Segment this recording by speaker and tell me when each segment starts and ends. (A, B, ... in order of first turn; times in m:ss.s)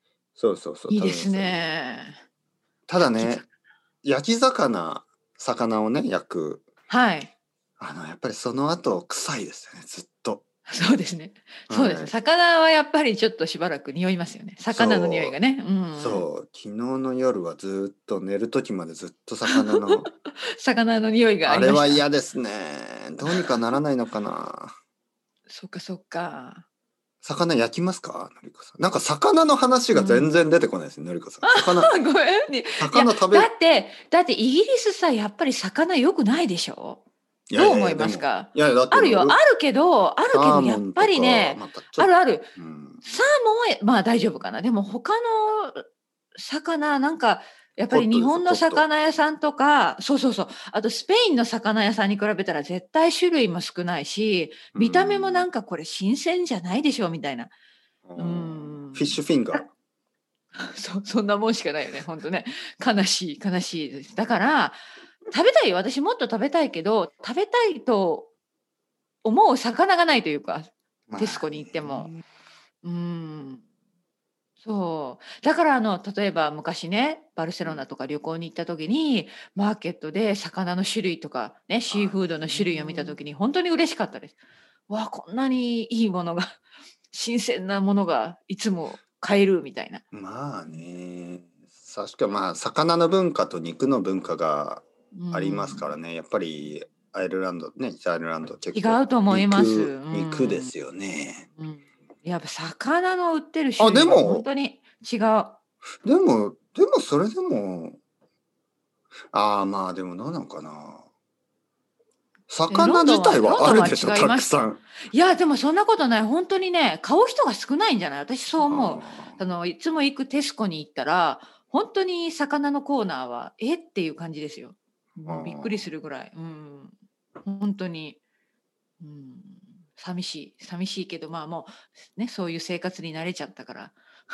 0:00.4-0:01.6 A
0:00.9-0:02.2 B
0:02.9-0:03.4 A
0:03.0-0:03.4 B
0:04.0-0:06.6 A
0:06.9-0:07.3 B
0:07.8-0:10.4 A
0:10.7-0:16.2 B
0:11.7-0:12.1 A
0:14.7-0:15.4 A
0:16.0-0:20.1 A
0:19.5-0:20.0 B
0:20.6-0:22.0 B
0:21.4-0:24.7 A
0:25.5-0:26.6 B
0:27.2-0:31.9 A
0:29.9-0:30.3 B
0:31.4-0:37.0 B
0:32.8-0:33.5 A
0:37.5-0:39.4 A
0:37.5-0:42.5 B
0:40.3-0:43.0 A
0:43.0-0:45.8 B
0:46.3-0:57.5 B
0:47.9-0:48.8 A
0:54.7-0:55.5 A
0:58.0-0:59.6 A
0:58.2-0:59.6 B
1:00.6-1:04.8 B
1:05.3-1:08.3 B
1:09.2-1:12.1 B
1:11.1-1:12.2 A
1:12.8-1:13.6 B
1:14.6-1:24.3 B
1:21.9-1:23.2 A
1:24.9-1:26.6 B
1:27.1-1:30.0 B
1:30.1-1:41.5 A
1:35.1-1:35.9 B
1:38.7-1:40.7 B
1:41.6-1:45.6 B
1:43.8-1:44.5 A
1:46.0-1:48.0 A
1:49.3-1:51.0 A
1:52.5-1:54.8 A
1:52.7-1:54.5 B
1:55.1-2:08.2 B
1:58.6-1:59.4 A
2:05.2-2:05.9 A
2:09.0-2:14.0 B